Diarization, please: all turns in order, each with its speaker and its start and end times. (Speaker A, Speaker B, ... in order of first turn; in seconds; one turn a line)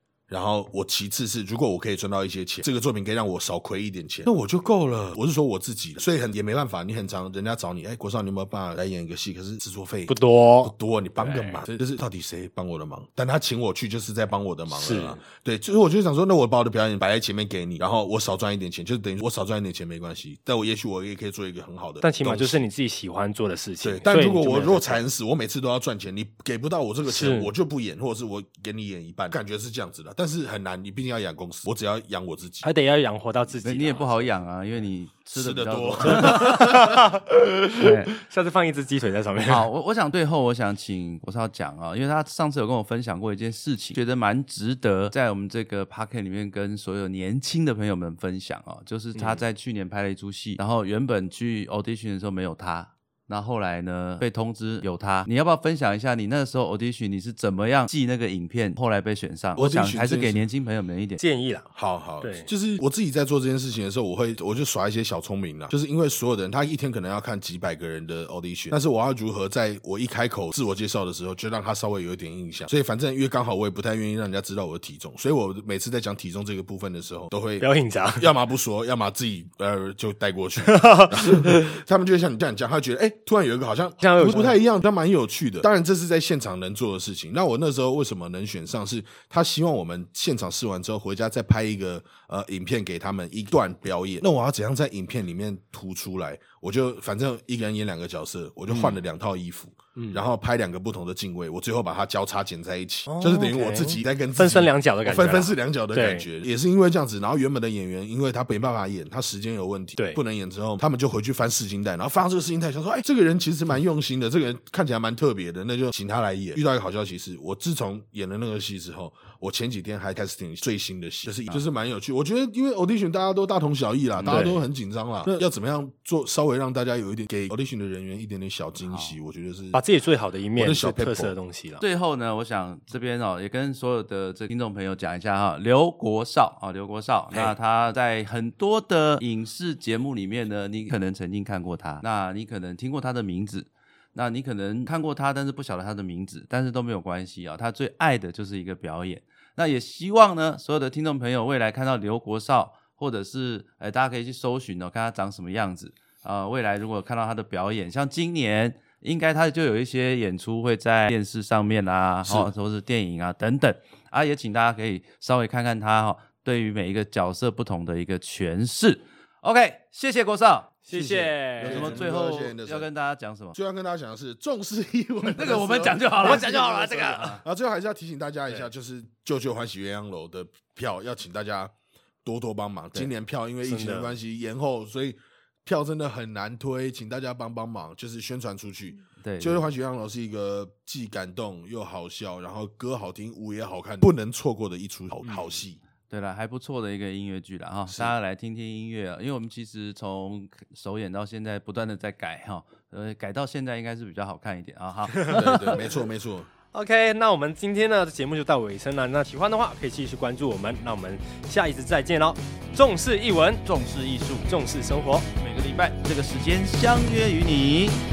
Speaker A: 0.3-22.6
Speaker B: 10.1-11.6
Speaker B: 14.7-15.2
Speaker B: 22.0-25.1
Speaker A: 23.8-32.7
Speaker B: 27.0-27.5
Speaker B: 32.6-34.3
Speaker C: 33.6-36.7
Speaker A: 35.3-37.0
Speaker B: 36.1-39.7
Speaker C: 37.8-38.1
Speaker C: 39.4-61.2
Speaker B: 49.1-49.4
Speaker A: 59.6-60.4
Speaker B: 61.2-61.7
Speaker A: 61.7-129.8
Speaker B: 62.2-62.5
Speaker B: 77.6-78.3
Speaker B: 80.7-81.6
Speaker B: 84.0-84.6
Speaker B: 98.7-99.0
Speaker B: 100.0-100.2
Speaker B: 103.1-106.2
Speaker C: 124.1-124.5
Speaker B: 124.3-124.6
Speaker B: 129.7-131.8
Speaker A: 130.6-131.3
Speaker C: 131.8-173.6
Speaker A: 137.3-137.6
Speaker B: 170.9-172.0
Speaker A: 171.6-172.9
Speaker A: 173.5-195.8
Speaker C: 175.3-177.4
Speaker B: 183.6-184.2
Speaker C: 189.2-189.6
Speaker C: 196.1-205.8
Speaker B: 205.1-205.8
Speaker A: 205.3-206.5
Speaker B: 206.7-213.7
Speaker C: 213.6-214.5
Speaker B: 214.4-215.3
Speaker C: 215.4-218.0